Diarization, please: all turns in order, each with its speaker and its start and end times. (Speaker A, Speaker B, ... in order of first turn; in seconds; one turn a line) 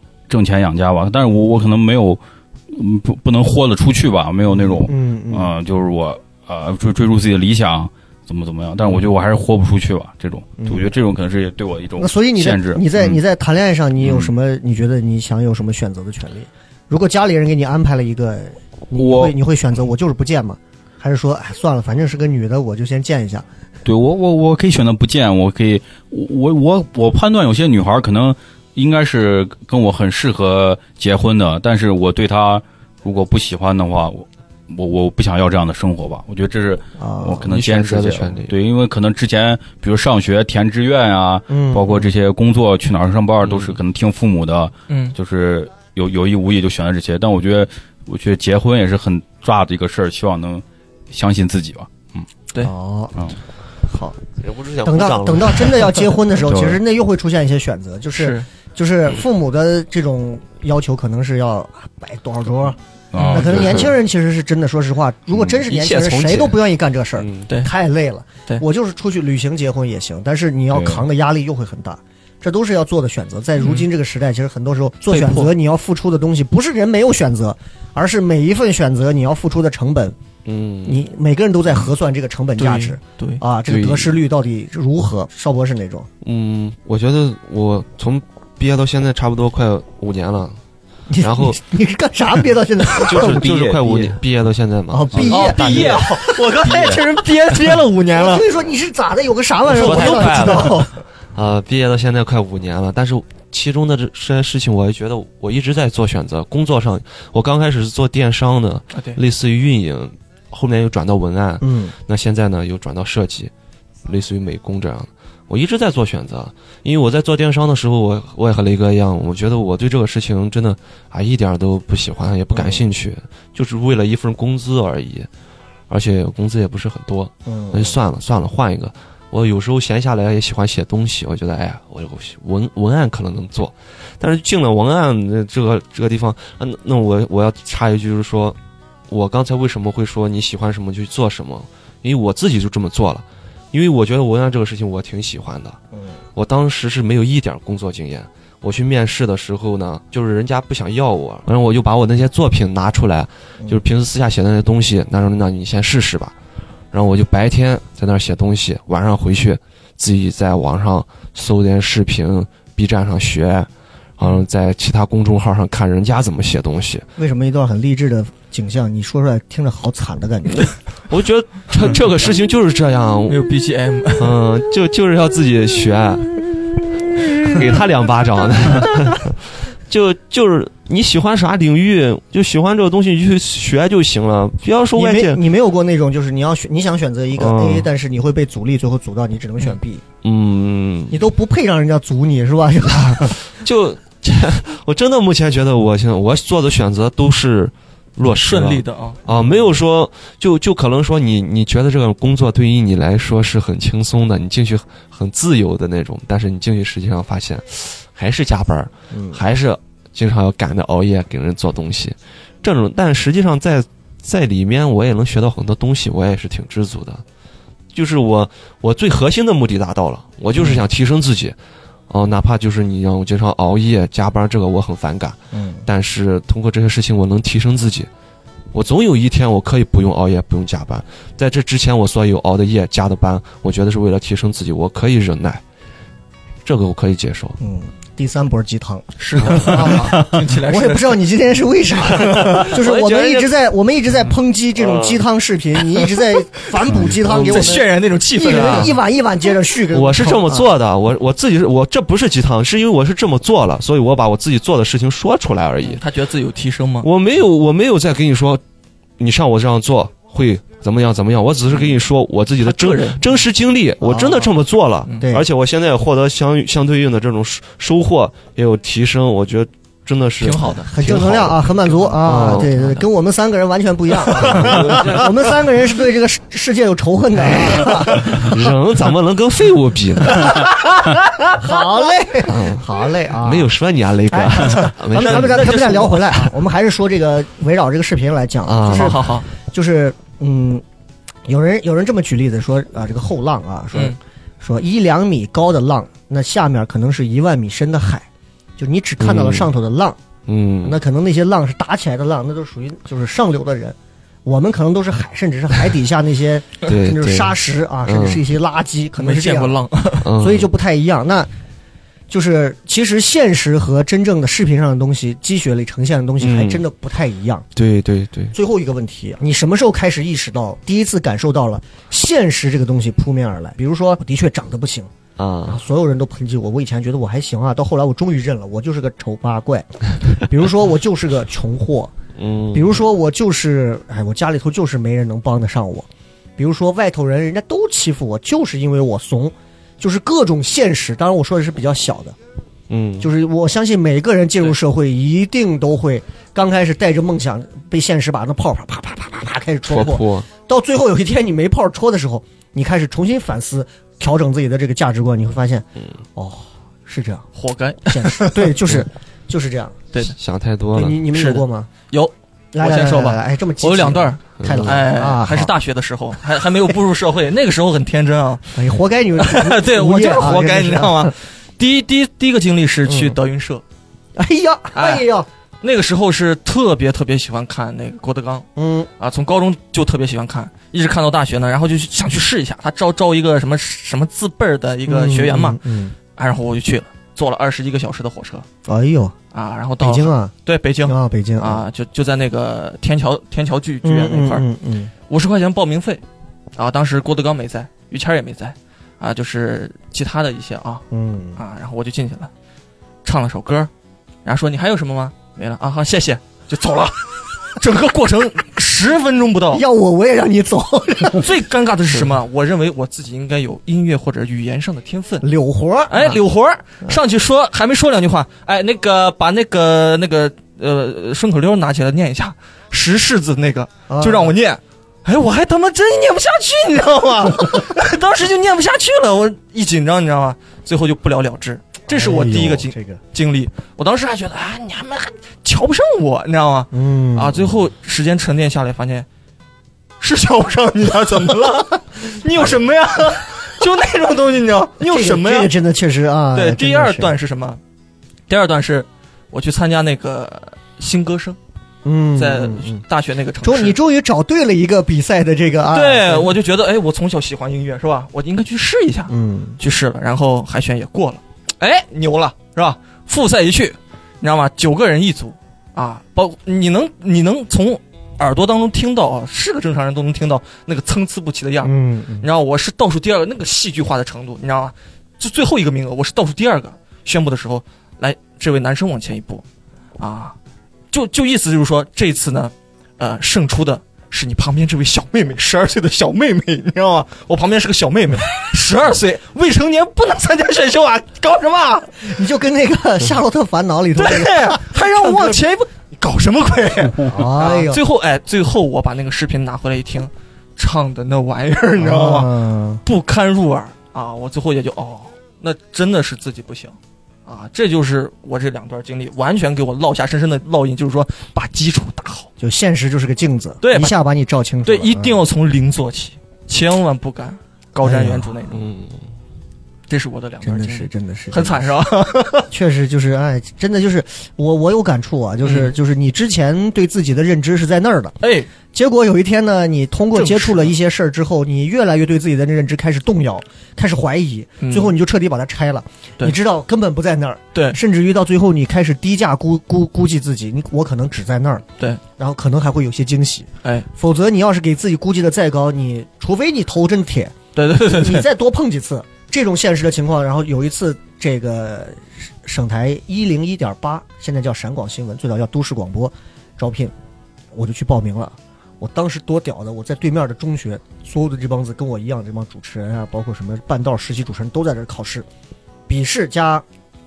Speaker A: 0.3-13.2
Speaker B: 4.5-5.5
Speaker B: 10.6-10.9
Speaker B: 12.0-23.4
Speaker A: 14.0-14.3
Speaker A: 18.9-19.3
Speaker A: 23.8-52.2
Speaker B: 37.0-37.4
Speaker C: 37.4-38.5
Speaker B: 41.5-42.1
Speaker C: 43.5-43.7
Speaker D: 44.9-45.1
Speaker B: 52.6-53.3
Speaker B: 53.9-54.2
Speaker C: 54.4-56.1
Speaker B: 54.9-80.1
Speaker A: 56.5-56.8
Speaker D: 58.1-58.5
Speaker A: 63.1-63.8
Speaker D: 63.2-63.6
Speaker C: 65.6-66.5
Speaker C: 67.2-67.5
Speaker D: 67.5-67.7
Speaker A: 70.7-71.0
Speaker D: 73.6-73.9
Speaker D: 75.1-75.5
Speaker C: 80.4-81.0
Speaker B: 80.8-86.1
Speaker D: 82.6-83.4
Speaker C: 83.7-84.1
Speaker C: 86.2-90.6
Speaker B: 91.1-93.5
Speaker C: 91.2-91.6
Speaker C: 93.0-96.1
Speaker A: 93.1-94.2
Speaker B: 94.9-96.4
Speaker D: 95.3-98.5
Speaker A: 96.7-97.0
Speaker B: 98.1-100.9
Speaker D: 99.7-100.9
Speaker C: 99.8-113.5
Speaker D: 108.9-109.2
Speaker B: 111.6-111.9
Speaker C: 114.0-125.3
Speaker B: 122.5-122.8
Speaker C: 125.9-138.6
Speaker B: 127.5-128.0
Speaker C: 139.1-145.8
Speaker C: 146.3-156.3
Speaker C: 156.9-167.0
Speaker B: 167.2-170.7
Speaker C: 171.1-173.4
Speaker D: 173.2-174.4
Speaker C: 174.2-176.4
Speaker C: 177.4-179.4
Speaker C: 179.9-185.4
Speaker B: 184.9-190.0
Speaker C: 187.3-187.9
Speaker C: 190.2-191.2
Speaker B: 191.1-193.4
Speaker C: 193.5-217.2
Speaker D: 198.4-199.2
Speaker B: 209.1-209.4
Speaker C: 217.9-221.6
Speaker C: 222.1-228.1
Speaker B: 225.5-225.8
Speaker C: 228.7-235.6
Speaker C: 236.6-237.6
Speaker B: 237.6-250.7
Speaker D: 239.2-241.2
Speaker D: 242.3-242.8
Speaker C: 242.3-243.5
Speaker C: 244.8-245.2
Speaker D: 246.9-248.9
Speaker C: 247.2-247.8
Speaker C: 248.4-248.9
Speaker C: 249.9-256.0
Speaker D: 255.8-257.1
Speaker C: 257.0-258.6
Speaker C: 259.2-271.6
Speaker D: 262.6-263.4
Speaker B: 264.0-264.5
Speaker D: 270.4-270.9
Speaker B: 270.9-278.5
Speaker D: 271.9-273.0
Speaker C: 272.2-272.7
Speaker C: 274.4-275.3
Speaker C: 277.5-280.6
Speaker B: 280.4-280.8
Speaker B: 281.4-283.7
Speaker C: 282.4-285.8
Speaker B: 284.3-290.8
Speaker D: 284.8-286.6
Speaker C: 288.6-289.3
Speaker D: 288.8-289.5
Speaker B: 291.4-298.2
Speaker B: 298.8-300.2
Speaker C: 299.2-299.7
Speaker C: 300.4-301.0
Speaker B: 300.8-309.8
Speaker C: 306.8-308.4
Speaker D: 309.1-310.3
Speaker C: 310.2-310.7
Speaker B: 310.4-311.5
Speaker B: 312.3-317.6
Speaker C: 316.4-316.8
Speaker C: 317.7-318.5
Speaker B: 318.5-325.1
Speaker C: 325.4-325.8
Speaker B: 325.7-332.1
Speaker C: 332.4-333.0
Speaker B: 332.7-336.1
Speaker B: 336.6-342.4
Speaker C: 342.9-343.3
Speaker B: 343.2-357.5
Speaker C: 349.9-350.4
Speaker D: 357.6-358.6
Speaker B: 358.1-360.0
Speaker C: 360.3-361.2
Speaker B: 360.9-361.9
Speaker D: 361.3-368.8
Speaker B: 362.7-365.7
Speaker C: 364.6-365.0
Speaker B: 368.7-371.3
Speaker D: 369.4-373.8
Speaker B: 373.0-373.4
Speaker B: 374.4-375.5
Speaker D: 374.9-375.2
Speaker D: 375.8-378.6
Speaker B: 378.8-379.1
Speaker D: 379.2-388.6
Speaker B: 385.1-386.1
Speaker B: 388.9-389.3
Speaker D: 389.5-394.6
Speaker B: 390.0-391.8
Speaker B: 394.0-395.1
Speaker D: 395.2-396.2
Speaker D: 396.8-401.0
Speaker B: 401.1-401.6
Speaker D: 401.6-402.5
Speaker D: 403.2-403.9
Speaker D: 404.4-409.8
Speaker B: 409.7-411.5
Speaker D: 411.3-415.5
Speaker B: 415.4-416.4
Speaker D: 416.1-439.3
Speaker B: 424.1-424.5
Speaker B: 432.1-433.2
Speaker B: 436.9-437.7
Speaker D: 440.2-445.7
Speaker B: 445.0-447.3
Speaker D: 446.5-447.8
Speaker D: 448.5-451.6
Speaker B: 452.0-453.0
Speaker D: 452.4-454.0
Speaker B: 453.6-456.5
Speaker D: 455.9-479.6
Speaker B: 459.3-459.8
Speaker B: 471.8-472.5
Speaker D: 480.2-480.6
Speaker D: 481.1-492.3
Speaker B: 492.2-495.6
Speaker D: 494.2-512.5
Speaker B: 497.2-498.0
Speaker B: 502.0-503.0
Speaker B: 512.6-515.4
Speaker D: 513.8-514.1
Speaker D: 514.8-518.8
Speaker B: 518.0-518.5
Speaker C: 518.7-519.2
Speaker D: 520.1-522.7
Speaker B: 520.6-521.9
Speaker B: 522.6-528.4
Speaker D: 525.6-526.0
Speaker D: 528.4-528.7
Speaker B: 528.9-541.9
Speaker D: 530.3-530.9
Speaker D: 534.8-535.1
Speaker D: 537.7-538.0
Speaker B: 542.4-557.1
Speaker D: 547.7-548.5
Speaker B: 557.7-565.5
Speaker B: 566.1-566.8